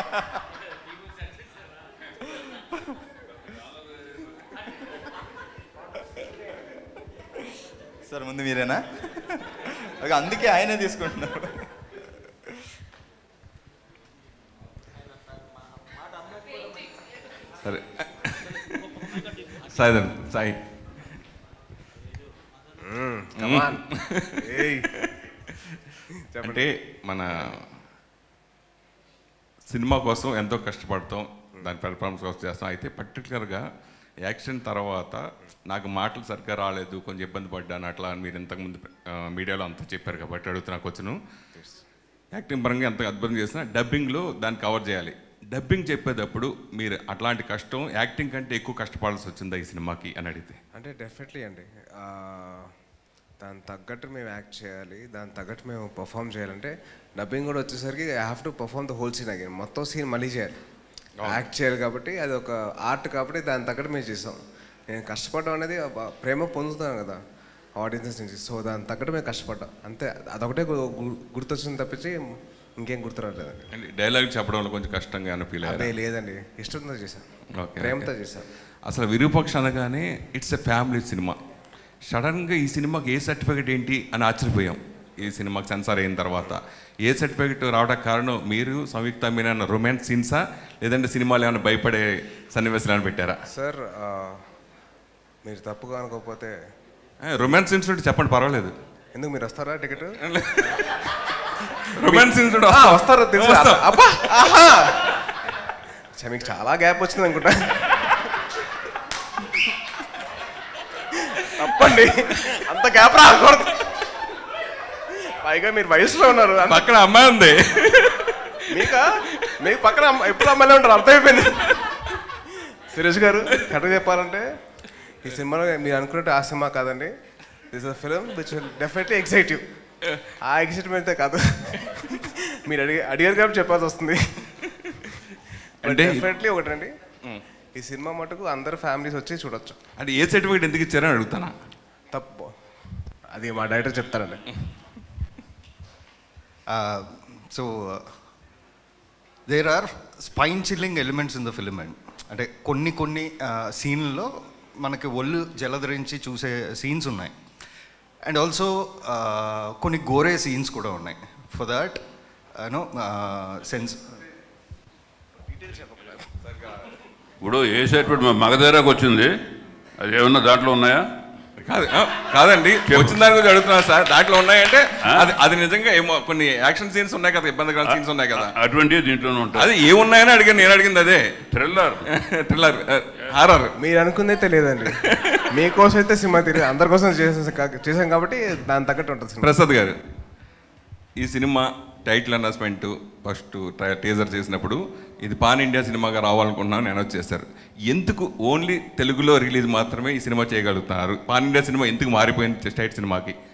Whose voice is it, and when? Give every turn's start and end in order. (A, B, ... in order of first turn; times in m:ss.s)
0:08.1-0:08.9 A
0:09.7-0:11.5 A
0:17.6-0:20.6 B
0:22.8-0:24.9 C
0:23.4-0:25.1 B
0:26.2-0:26.7 C
0:26.4-0:27.6 B
0:29.7-0:33.7 B
0:34.2-0:41.2 B
0:41.5-0:41.8 C
0:42.3-0:50.6 B
0:50.7-0:52.7 C
0:53.4-1:00.6 C
1:01.2-1:01.4 B
1:01.2-1:07.2 C
1:07.8-1:12.2 C
1:12.8-1:13.7 C
1:13.7-1:15.9 B
1:15.6-1:17.3 C
1:17.6-1:18.1 B
1:17.8-1:18.5 C
1:18.9-1:21.4 B
1:22.1-1:33.4 B
1:33.5-1:34.5 C
1:35.4-1:36.6 C
1:37.2-1:38.8 B
1:39.1-1:40.8 C
1:40.2-1:41.1 B
1:41.8-1:44.3 B
1:41.9-1:45.2 C
1:46.2-1:48.3 C
1:51.3-1:53.8 C
1:55.2-1:56.9 C
1:56.6-1:59.5 B
1:58.7-2:01.8 C
2:02.9-2:04.5 C
2:05.2-2:07.1 C
2:07.7-2:09.7 C
2:10.4-2:14.6 C
2:15.8-2:16.9 C
2:15.8-2:16.3 B
2:17.8-2:19.8 C
2:20.0-2:21.5 B
2:22.1-2:22.6 C
2:23.4-2:24.4 C
2:26.7-2:28.2 D
2:29.5-2:37.3 D
2:38.2-2:42.0 D
2:42.6-2:44.1 D
2:45.6-2:46.2 C
2:47.4-2:49.3 E
2:50.0-2:51.0 E
2:51.6-2:58.6 B
2:52.9-2:53.2 E
2:55.0-2:55.3 E
2:57.8-2:59.7 E
2:59.5-3:01.3 B
3:01.5-3:02.0 E
3:02.1-3:03.7 B
3:03.8-3:09.5 C
3:04.9-3:05.4 B
3:09.4-3:10.0 B
3:11.2-3:23.4 B